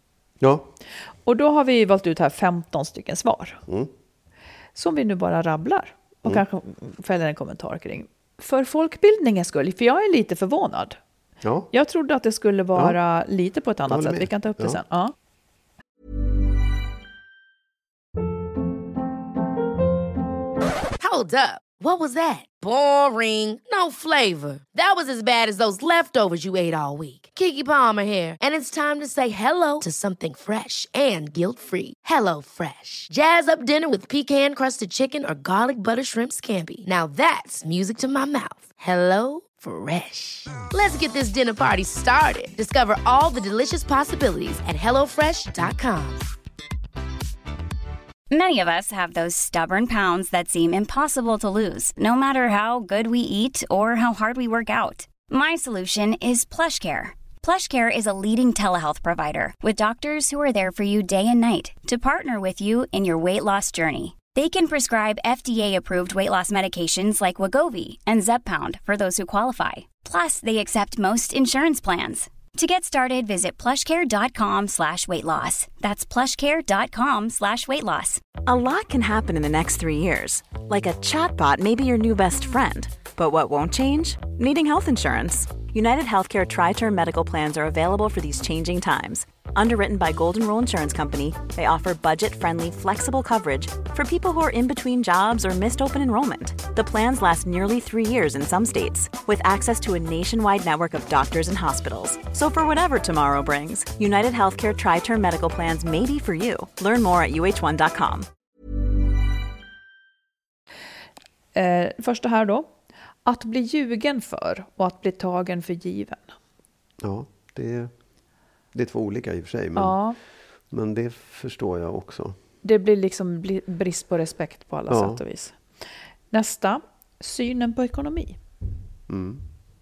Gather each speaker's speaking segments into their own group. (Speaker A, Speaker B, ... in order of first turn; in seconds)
Speaker A: 0.4-0.7, 11.4-11.7, 13.9-14.8, 117.0-117.9, 118.7-120.0, 120.7-122.4, 124.9-125.2, 129.1-129.4
Speaker B: 1.2-3.6, 4.7-11.0, 11.7-15.1, 111.5-112.7, 113.2-116.3, 119.8-120.2, 122.6-125.6, 126.3-128.4
Speaker C: 21.0-46.2
Speaker D: 48.3-78.2
Speaker E: 78.4-108.3